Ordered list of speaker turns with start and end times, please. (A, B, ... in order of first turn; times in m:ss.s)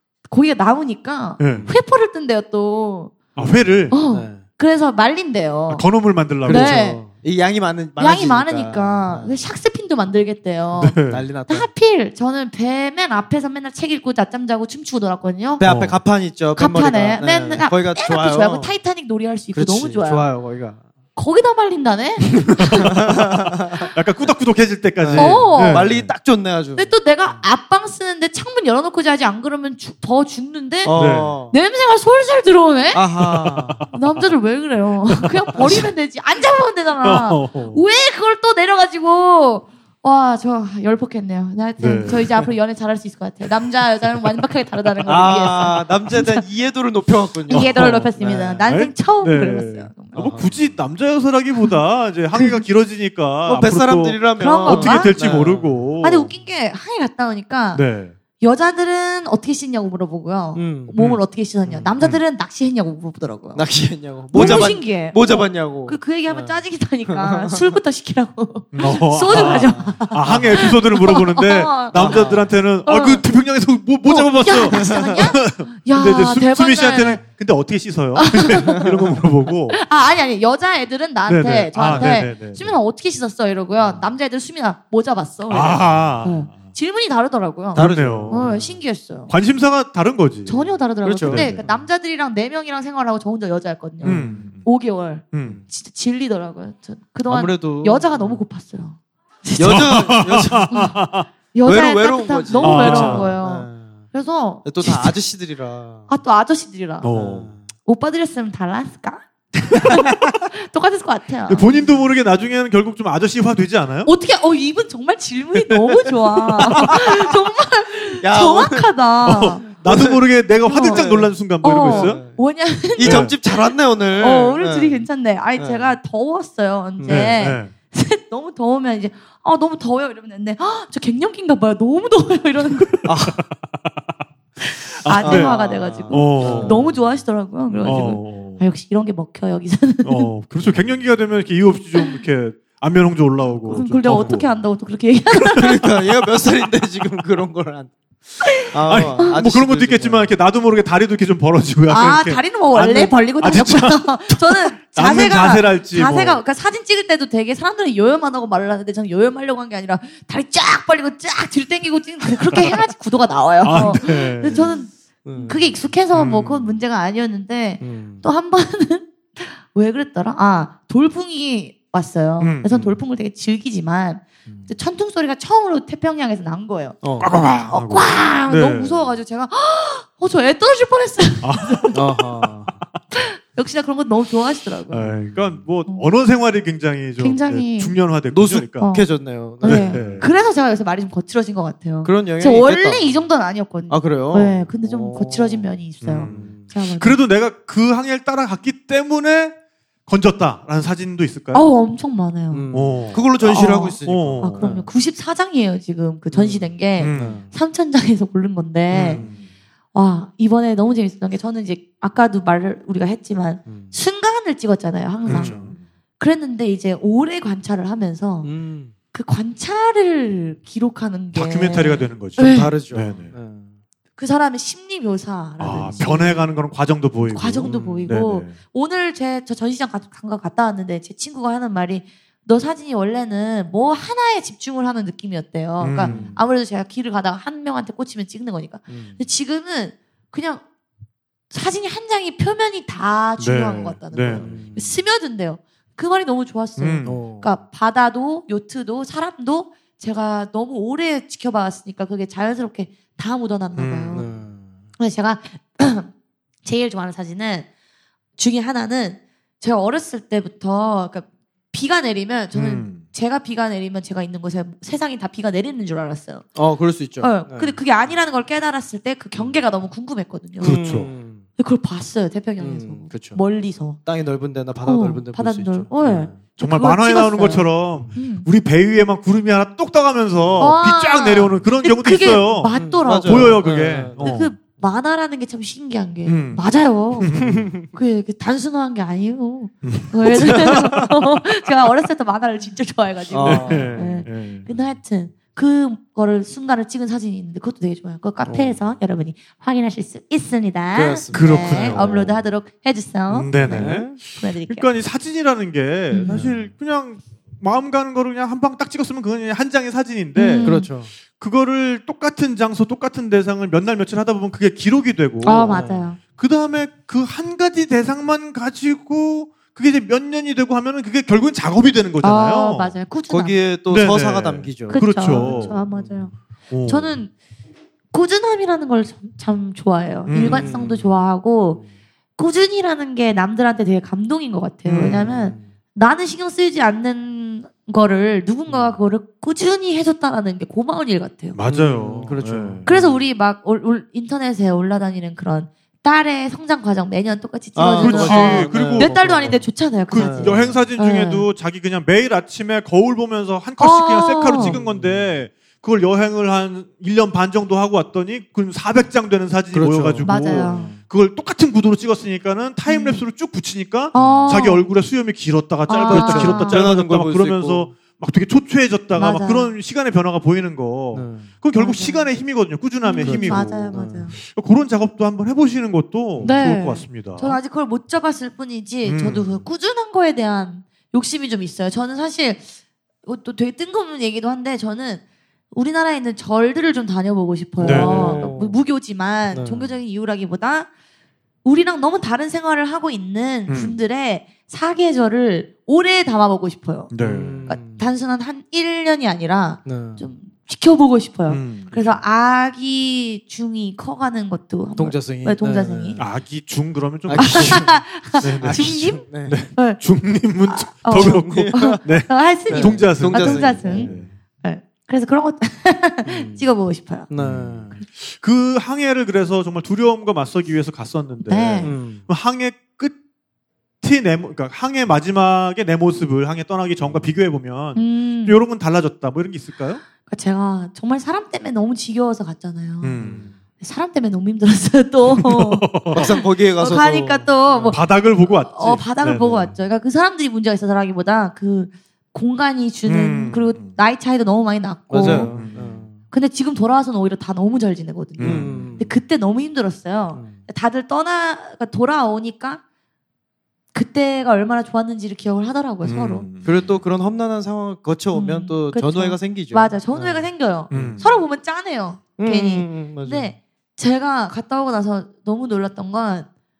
0:00.3-0:03.1 A
0:01.4-0:01.7 B
0:03.4-0:04.0 B
0:03.4-0:04.4 C
0:03.9-0:05.8 A
0:05.7-0:06.8 B
0:06.4-0:09.4 C
0:06.5-0:07.0 A
0:08.0-0:15.6 A
0:10.8-0:11.2 B
0:11.1-0:11.7 C
0:15.6-0:18.7 C
0:15.6-0:16.0 B
0:16.5-0:20.3 A
0:19.5-0:20.8 C
0:21.2-0:22.8 A
0:22.4-0:23.2 B
0:22.8-0:23.9 C
0:23.9-0:26.1 B
0:25.0-0:26.9 C
0:25.1-0:25.9 A
0:26.8-0:33.0 A
0:30.8-0:31.5 C
0:30.9-0:31.3 B
0:32.9-0:33.8 C
0:33.2-0:33.9 B
0:33.9-0:46.4 A
0:35.2-0:35.8 B
0:37.0-0:37.8 B
0:41.8-0:42.4 B
0:45.0-0:48.7 C
0:47.5-0:50.3 A
0:47.5-0:48.1 B
0:48.6-0:56.3 B
0:50.1-0:50.6 C
0:52.3-0:52.6 A
0:53.4-0:55.8 C
0:54.4-0:55.4 A
0:56.0-0:57.8 A
0:57.7-0:58.1 B
0:58.4-1:03.7 A
1:00.5-1:00.9 C
1:01.0-1:01.2 B
1:01.6-1:01.9 C
1:03.5-1:07.8 C
1:04.3-1:13.2 A
1:04.3-1:04.7 B
1:08.7-1:19.8 B
1:09.3-1:10.6 C
1:11.9-1:12.5 C
1:14.0-1:17.2 A
1:14.7-1:15.3 C
1:18.2-1:19.0 A
1:19.7-1:29.3 A
1:21.2-1:22.7 B
1:23.8-1:24.0 C
1:25.5-1:26.5 B
1:27.7-1:28.6 C
1:27.7-1:28.6 B
1:29.3-1:30.7 B
1:30.5-1:41.0 A
1:31.0-1:31.6 C
1:31.2-1:31.8 B
1:34.0-1:34.5 C
1:34.0-1:34.6 B
1:35.3-1:35.6 B
1:37.3-1:38.4 C
1:39.6-1:40.8 C
1:39.6-1:41.3 B
1:41.5-1:45.1 A
1:41.6-1:44.0 C
1:42.6-1:43.4 B
1:44.6-1:46.1 C
1:46.1-1:47.1 A
1:47.0-1:47.5 B
1:47.1-1:47.6 C
1:47.8-1:51.7 A
1:51.5-1:54.1 B
1:54.0-1:59.7 A
1:56.6-1:57.0 B
1:56.6-1:57.1 C
1:58.2-1:58.9 C
1:59.2-2:02.2 B
1:59.8-2:00.2 C
2:00.6-2:01.0 A
2:00.7-2:02.4 C
2:01.6-2:13.1 A
2:02.9-2:05.9 C
2:03.0-2:03.3 B
2:07.0-2:07.4 C
2:07.1-2:07.7 B
2:12.8-2:13.5 B
2:13.0-2:13.4 C
2:14.6-2:20.3 A
2:15.0-2:16.9 B
2:15.2-2:17.0 C
2:17.7-2:18.2 C
2:17.8-2:18.6 B
2:20.0-2:24.5 B
2:21.9-2:22.2 A
2:23.6-2:26.0 A
2:24.1-2:24.4 C
2:25.4-2:27.9 C
2:28.6-2:30.3 C
2:28.9-2:36.4 B
2:31.9-2:57.0 A
2:43.6-2:44.7 B
2:45.2-2:45.7 C
2:46.1-2:46.7 B
2:47.8-2:48.2 C
2:52.4-2:52.9 B
2:54.5-2:54.7 C
2:57.0-2:57.3 C
2:57.2-2:59.1 B
2:57.7-3:02.0 A
3:01.4-3:02.0 B
3:01.9-3:02.7 C
3:03.1-3:05.1 A
3:04.9-3:08.9 B
3:07.2-3:08.0 A
3:08.3-3:10.2 C
3:08.8-3:17.2 A
3:09.6-3:10.3 B
3:12.0-3:13.2 C
3:13.9-3:15.7 C
3:16.0-3:19.5 B
3:16.2-3:16.7 C
3:20.1-3:21.6 B
3:21.5-3:22.7 A
3:22.5-3:24.9 C
3:22.7-3:23.3 B
3:23.4-3:29.2 A
3:24.0-3:24.7 B
3:26.3-3:27.5 C
3:27.0-3:27.4 B
3:28.9-3:29.3 B
3:28.9-3:29.4 C
3:29.9-3:38.5 A
3:33.7-3:33.9 C
3:35.3-3:35.7 C
3:35.3-3:35.8 B
3:38.4-3:38.9 C
3:39.1-3:42.7 A
3:41.3-3:43.3 B
3:42.4-3:43.7 C
3:44.2-3:46.5 A
3:45.6-3:48.5 B
3:47.3-4:00.6 A
3:47.6-3:48.2 C
3:55.8-3:56.3 B
3:56.0-3:56.4 C
3:58.9-3:59.2 C
4:01.5-4:14.3 A
4:03.4-4:04.5 B
4:04.3-4:05.0 C
4:06.8-4:07.2 B
4:07.0-4:07.5 C
4:13.8-4:14.2 B
4:14.1-4:14.8 C
4:15.0-4:16.1 A
4:16.6-4:17.7 A
4:18.4-4:26.4 A
4:22.5-4:23.0 B
4:26.6-4:27.8 C
4:27.2-4:30.8 A
4:30.6-4:31.1 B
4:30.6-4:31.4 C
4:31.6-4:34.0 A
4:32.6-4:33.4 C
4:34.0-4:36.4 C
4:34.8-4:38.5 A
4:36.6-4:44.5 B
4:40.6-5:04.9 A
4:42.7-4:44.4 C
4:46.2-4:46.6 B
4:47.2-4:47.7 B
4:47.4-4:47.9 C
4:49.8-4:50.9 B
4:50.4-4:51.1 C
4:53.3-4:54.2 C
4:53.4-4:54.7 B
4:58.4-4:58.8 C
5:00.9-5:02.4 C
5:01.3-5:02.2 B
5:03.3-5:10.8 B
5:03.6-5:04.2 C
5:06.1-5:06.4 A
5:06.3-5:06.7 C
5:10.3-5:10.9 A
5:10.6-5:11.1 C
5:11.4-5:15.8 B
5:15.4-5:16.2 A
5:15.7-5:16.1 C
5:16.3-5:23.0 B
5:22.2-5:23.6 A
5:23.3-5:26.3 C
5:23.9-5:25.8 B
5:24.9-5:26.3 A
5:26.7-5:27.2 B
5:26.8-5:27.3 A
5:28.1-5:31.8 A
5:30.3-5:30.7 B
5:30.4-5:31.1 C
5:32.4-5:41.6 A
5:34.8-5:35.3 B
5:35.0-5:35.7 C
5:38.7-5:39.0 C
5:41.5-5:42.9 B
5:41.6-5:43.2 C
5:42.8-5:51.4 A
5:47.7-5:50.8 C
5:48.0-5:49.2 B
5:50.1-6:17.6 B
5:53.8-5:54.8 A
5:54.6-5:55.3 C
5:59.7-6:01.0 C
6:00.2-6:00.9 A
6:02.9-6:03.2 A
6:04.1-6:04.9 A
6:04.1-6:04.6 C
6:05.9-6:06.8 A
6:06.1-6:07.9 C
6:09.1-6:09.7 A
6:11.1-6:11.5 C
6:11.7-6:12.3 A
6:13.0-6:14.4 A
6:13.2-6:14.4 C
6:16.4-6:16.7 C
6:16.4-6:22.7 A
6:19.0-6:19.6 B
6:23.2-6:30.9 A
6:27.8-6:28.4 B
6:27.8-6:28.8 C
6:29.5-6:29.9 C
6:31.6-6:37.1 A
6:33.7-6:34.0 B
6:37.1-6:37.7 B
6:37.2-6:38.0 C
6:37.7-6:46.2 A
6:39.8-6:40.2 C
6:41.5-6:42.2 B
6:45.0-6:46.2 C
6:46.2-6:54.3 B
6:47.3-6:49.6 C
6:47.4-6:50.0 A
6:50.7-6:54.1 A
6:51.1-6:52.0 C
6:52.7-6:54.3 C
6:54.6-6:57.3 A
6:56.2-6:56.6 C
6:57.3-6:58.0 C
6:57.4-7:03.1 B
7:01.4-7:01.9 A
7:01.8-7:02.2 C
7:04.0-7:10.0 B
7:07.9-7:08.6 A
7:10.2-7:13.2 A
7:13.0-7:13.5 B
7:13.2-7:13.6 C
7:13.8-7:25.6 A
7:15.3-7:16.2 B
7:16.1-7:18.0 C
7:17.8-7:19.7 B
7:23.0-7:23.9 B
7:25.1-7:26.2 C
7:25.2-7:26.0 B
7:26.3-7:32.8 A
7:28.4-7:28.9 B
7:28.4-7:29.1 C
7:30.3-7:30.6 C
7:33.9-7:36.5 A
7:36.0-7:36.8 B
7:36.6-7:41.2 C
7:38.3-7:46.5 A
7:40.9-7:41.4 B
7:42.4-7:43.5 C